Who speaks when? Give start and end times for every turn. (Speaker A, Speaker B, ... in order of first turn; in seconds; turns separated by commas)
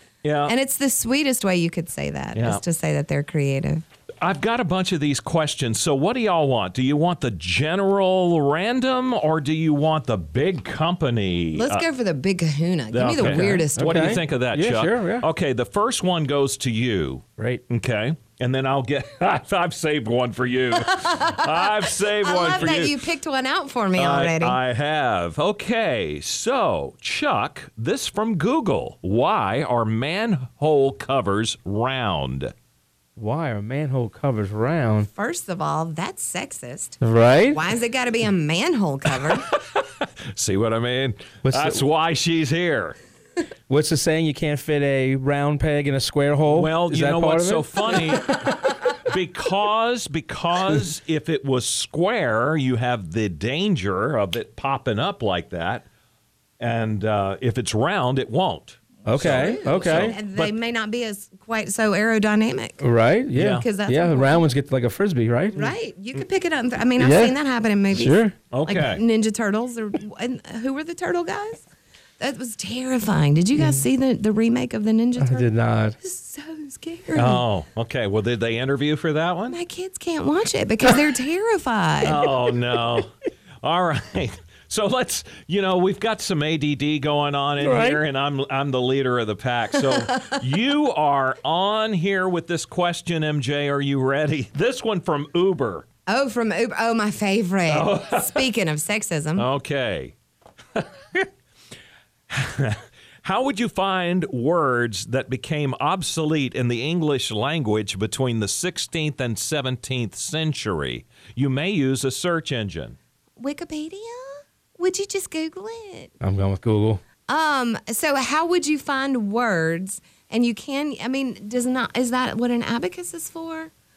Speaker A: 0.2-0.5, Speaker B: 0.5-3.8, Speaker A: 2.3-2.6, Speaker A: 4.2-11.8, Speaker B: 11.6-14.2, Speaker A: 12.9-23.0, Speaker C: 13.2-15.2, Speaker B: 20.9-24.6, Speaker A: 23.9-32.5, Speaker C: 33.2-35.1, Speaker B: 35.1-39.5, Speaker C: 37.0-37.6, Speaker A: 39.4-43.0, Speaker C: 41.4-41.8, Speaker C: 43.7-48.0, Speaker A: 46.5-55.8, Speaker B: 48.2-48.5, Speaker A: 56.6-60.5, Speaker C: 59.0-60.2, Speaker B: 59.1-62.8, Speaker C: 62.8-65.7, Speaker A: 63.4-63.6, Speaker B: 63.5-64.5, Speaker B: 65.5-71.6, Speaker C: 67.0-67.3, Speaker C: 67.9-68.3, Speaker A: 68.5-69.0, Speaker B: 72.2-75.5, Speaker C: 75.2-76.0, Speaker B: 76.0-77.4, Speaker A: 77.1-79.6, Speaker B: 79.5-82.2, Speaker A: 82.0-83.1, Speaker A: 83.6-95.8, Speaker C: 87.6-88.0, Speaker B: 89.7-90.4, Speaker B: 96.1-99.5, Speaker A: 97.7-98.5, Speaker A: 99.3-100.1, Speaker A: 100.7-101.3, Speaker A: 102.3-113.0, Speaker B: 113.4-116.1, Speaker C: 116.2-117.0, Speaker B: 117.3-123.7